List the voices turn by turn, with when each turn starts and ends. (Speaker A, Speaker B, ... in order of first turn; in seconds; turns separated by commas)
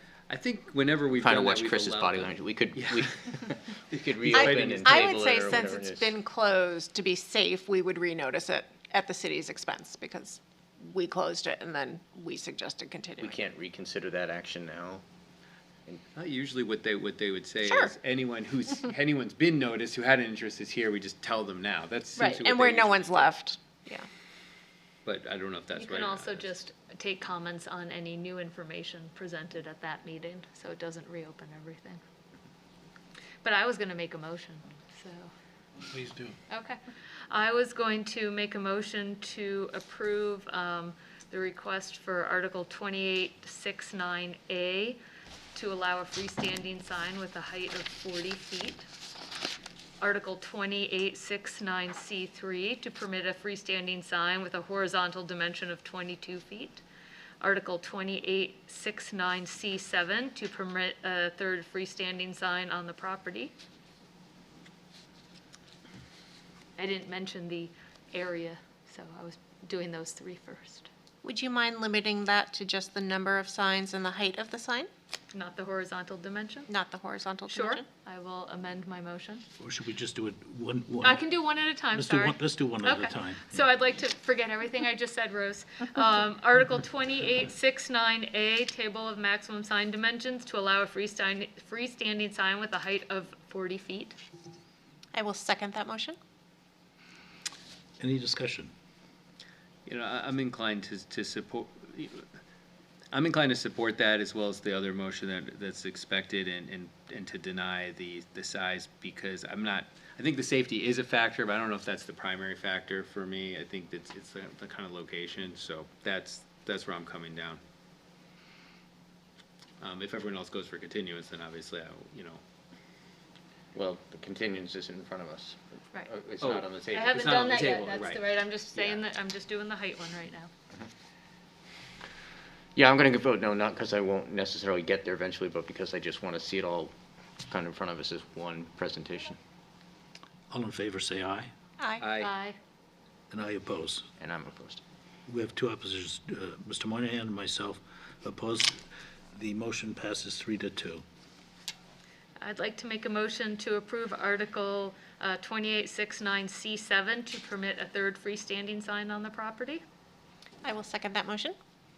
Speaker A: 0.3-3.1, Speaker B: 1.2-6.1, Speaker A: 3.9-5.1, Speaker C: 4.3-13.4, Speaker B: 13.2-15.0, Speaker A: 16.1-23.3, Speaker C: 17.6-17.9, Speaker C: 22.2-24.1, Speaker A: 25.0-26.6, Speaker D: 25.8-32.0, Speaker D: 33.4-35.3, Speaker E: 35.8-36.4, Speaker D: 36.5-45.0, Speaker D: 45.5-48.8, Speaker D: 50.0-56.8, Speaker D: 57.4-63.5, Speaker D: 66.8-70.9, Speaker C: 71.2-74.9, Speaker D: 75.3-76.7, Speaker C: 76.7-77.8, Speaker D: 77.5-79.4, Speaker E: 79.6-81.2, Speaker D: 81.0-94.2, Speaker E: 81.9-83.5, Speaker C: 95.1-96.2, Speaker E: 98.0-98.7, Speaker A: 99.8-102.2, Speaker A: 103.1-117.6, Speaker A: 119.8-122.4, Speaker B: 123.7-127.6, Speaker A: 126.4-128.2, Speaker D: 126.9-130.5, Speaker A: 128.7-129.0, Speaker B: 132.7-136.9, Speaker B: 137.5-139.4, Speaker E: 140.5-141.5, Speaker C: 141.8-142.1, Speaker A: 142.0-142.3, Speaker D: 142.2-142.6, Speaker E: 143.3-144.1, Speaker B: 144.2-144.8, Speaker E: 145.3-148.8, Speaker E: 149.3-151.0, Speaker D: 152.4-159.8, Speaker C: 160.6-161.6